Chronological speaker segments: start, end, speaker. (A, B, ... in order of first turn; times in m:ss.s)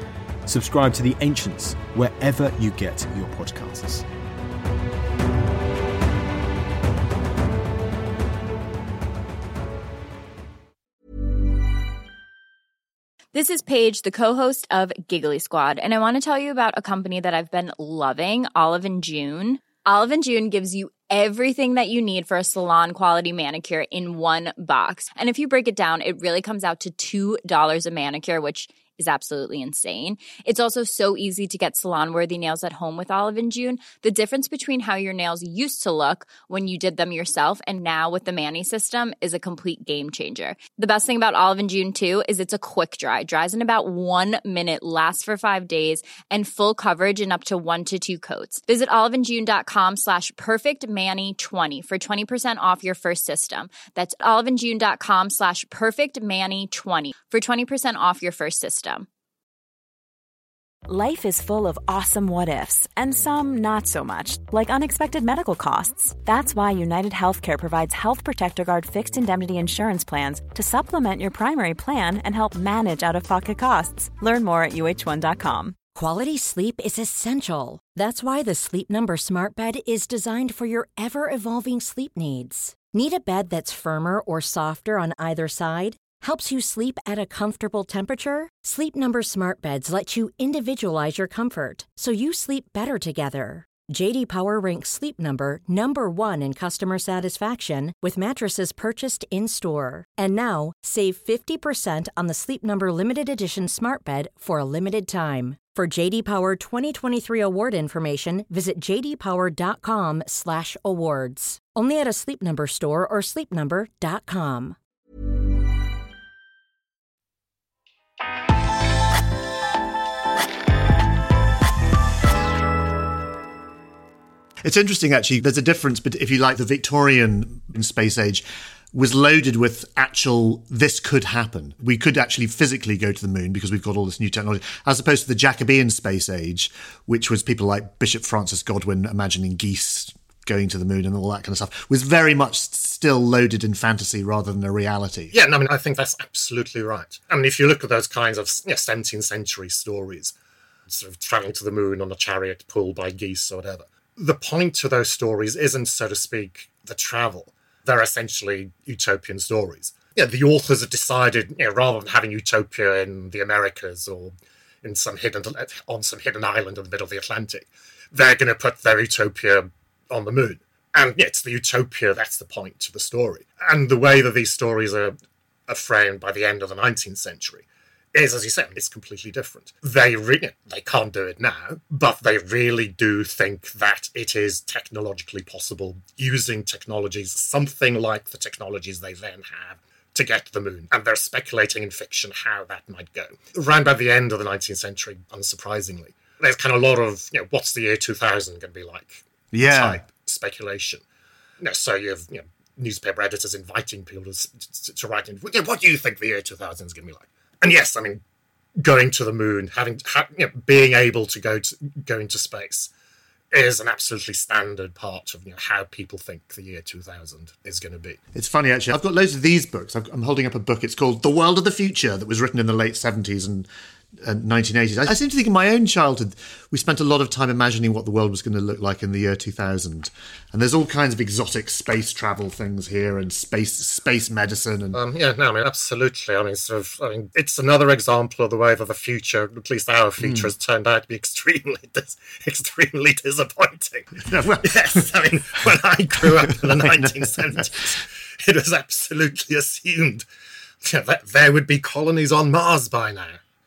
0:00.4-0:04.0 A
0:13.3-0:59.1 B
1:00.9-1:15.8 C
1:15.9-1:54.8 D
2:04.6-2:25.3 E
2:25.3-2:30.3 F
2:30.9-2:55.2 F
2:55.7-3:21.0 F
3:19.5-3:20.0 E
3:21.6-3:28.2 F
3:28.8-3:32.9 F
3:33.5-3:38.2 F
3:38.3-3:43.7 E
3:44.2-3:55.0 E
3:54.9-4:10.2 F
4:00.2-4:00.5 E
4:04.3-4:05.1 E
4:06.2-4:07.6 E
4:10.8-4:13.4 F